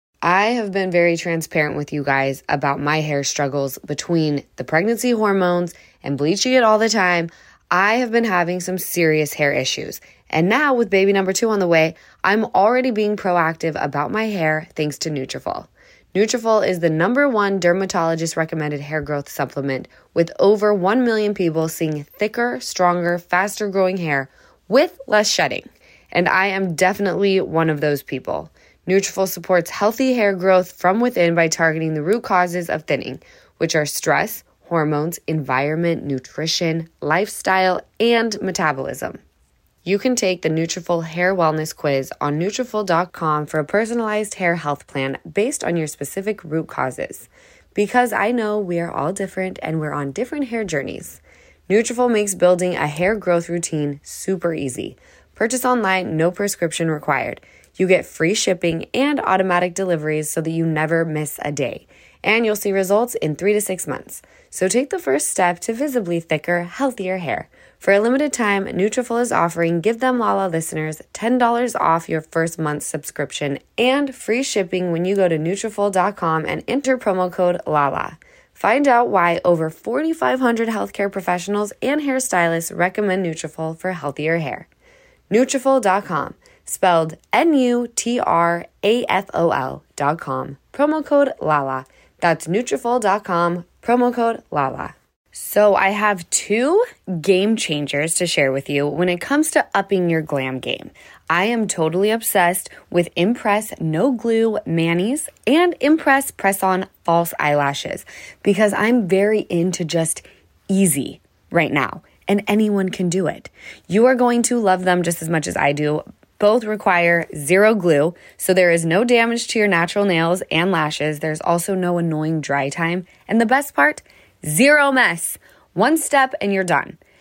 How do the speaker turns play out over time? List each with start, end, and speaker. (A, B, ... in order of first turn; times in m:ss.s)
0:00.2-0:39.2 A
0:39.8-1:24.7 A
1:25.3-2:07.0 A